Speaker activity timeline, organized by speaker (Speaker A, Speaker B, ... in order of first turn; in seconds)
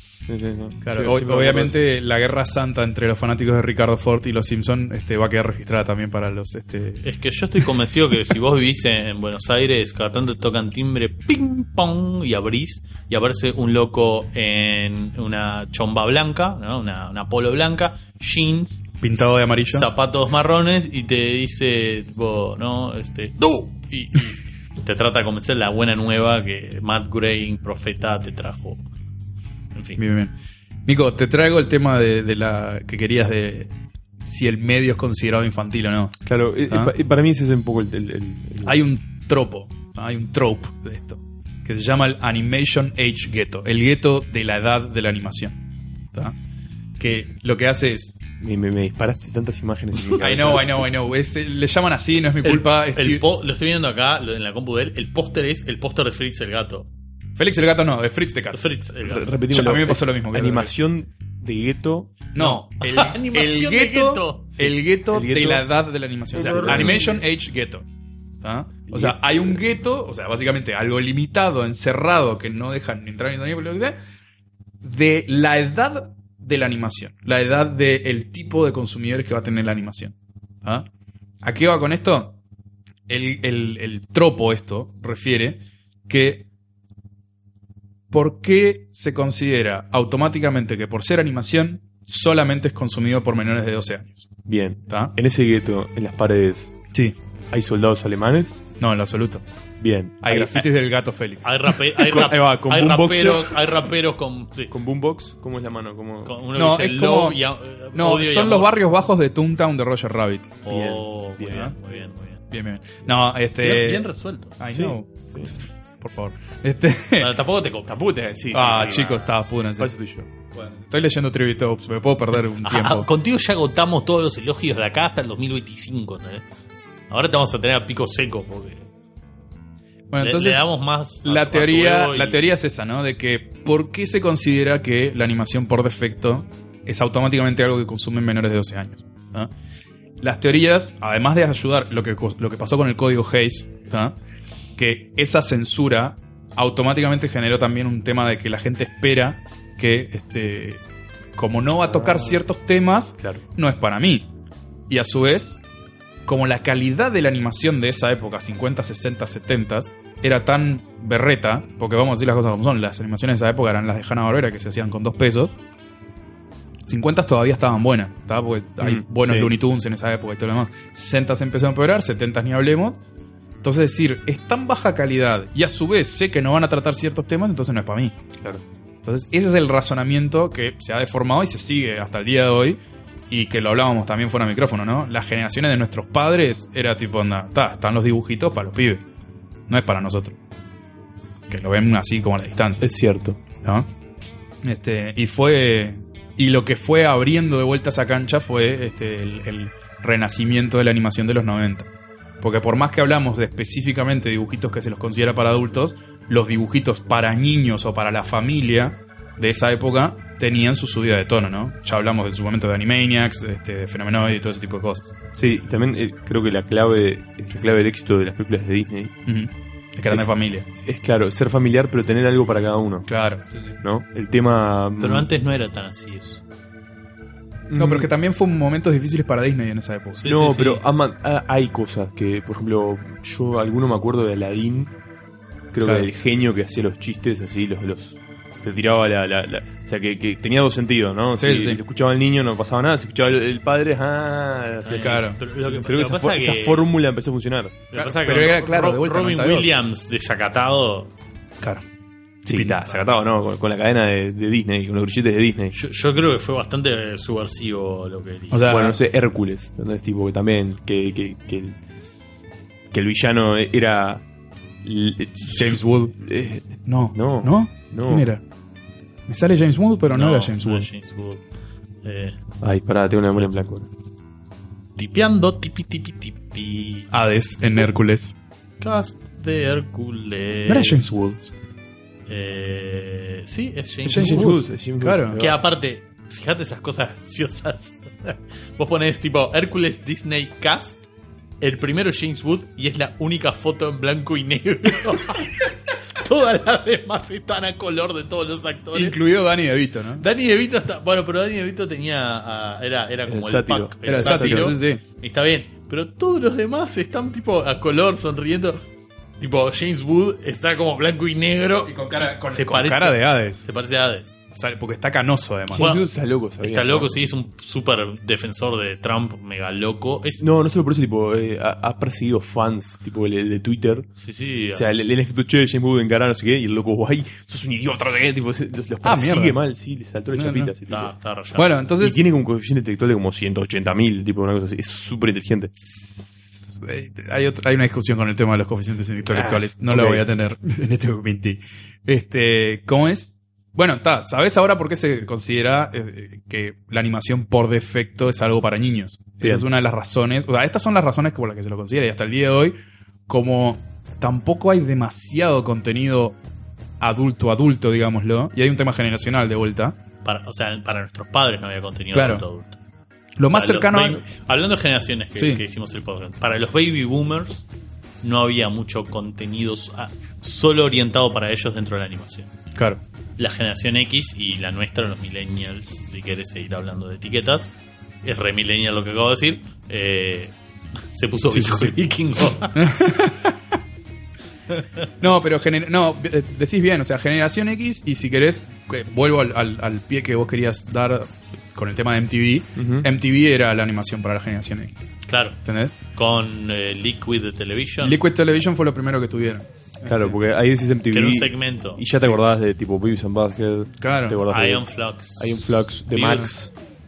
Speaker A: 0.3-1.8, 36.2-38.8, 48.4-50.9, 59.0-62.3, 64.6-65.7, 66.3-67.1, 68.9-69.6, 94.5-96.8, 97.5-98.6, 99.8-100.7, 102.0-103.8, 104.7-106.4, 110.7-111.7, 114.7-115.5, 117.9-119.1, 119.8-120.3, 151.9-152.4, 168.8-169.5, 192.8-193.4, 215.4-219.1, 220.8-223.1, 223.8-225.3, 227.7-228.1, 230.2-234.9, 235.7-247.9, 252.4-255.8, 258.7-261.8, 262.9-264.2, 264.8-268.3, 272.6-273.9, 284.1-285.6, 303.3-304.8, 315.7-317.1, 320.3-324.1, 324.7-331.1, 332.0-335.7, 339.3-340.2, 349.4-349.7, 392.8-393.1, 400.1-406.7
Speaker B: 0.8-7.0, 19.0-19.9, 30.0-30.3, 30.9-36.2, 38.6-45.6, 47.0-48.2, 50.2-53.2, 57.4-58.6, 59.5-60.7, 62.4-67.9, 68.4-74.0, 74.8-80.9, 81.4-82.4, 83.1-86.5, 88.1-94.3, 98.8-99.4, 100.2-101.7, 106.5-107.4, 107.9-110.6, 112.5-117.3, 118.5-119.9, 120.6-123.1, 130.1-130.6, 131.2-139.5, 140.2-144.2, 144.8-150.8, 151.4-154.3, 154.9-155.6, 156.3-165.6, 166.9-173.0, 173.6-178.2, 179.0-189.0, 189.7-190.4, 191.5-192.9, 193.6-193.9, 194.6-201.9, 202.4-215.1, 219.3-220.7, 223.1-223.8, 227.8-230.3, 235.8-236.1, 241.4-241.8, 245.0-245.4, 247.9-249.7, 252.5-252.8, 258.5-259.0, 265.5-266.2, 266.9-268.4, 269.3-270.9, 277.1-278.4, 280.7-281.5, 284.1-285.4, 298.9-300.2, 304.1-305.0, 311.9-313.7, 314.5-315.9, 329.0-329.6, 330.3-330.7, 331.6-332.2, 335.8-352.8, 353.3-356.4, 357.0-360.0, 362.1-362.5, 363.4-364.2, 365.4-365.6, 372.8-373.0, 381.5-382.0, 382.7-383.6, 385.2-395.1, 395.6-395.9, 398.0-400.4, 404.0-404.4
Speaker C: 7.0-28.8, 29.8-30.0, 52.4-56.9, 58.5-59.4, 62.4-64.6, 101.4-104.7, 106.2-108.9, 110.7-112.4, 113.6-114.6, 117.2-119.3, 122.6-126.4, 127.1-128.9, 130.2-132.4, 225.0-226.4, 230.2-230.8, 244.8-246.9, 247.9-251.1, 252.8-253.1, 255.7-258.9, 270.1-271.4, 272.0-272.4, 275.0-277.1, 278.8-281.3, 282.3-284.6, 285.4-291.1, 291.6-299.2, 300.2-308.8, 309.4-314.4, 315.8-316.1, 316.6-320.4, 324.2-325.0, 330.9-331.8, 360.2-362.8, 363.5-367.7, 368.2-372.5, 373.4-377.7, 378.2-380.5, 381.1-382.9, 395.3-395.6, 396.1-398.2, 401.1-402.0, 404.5-406.5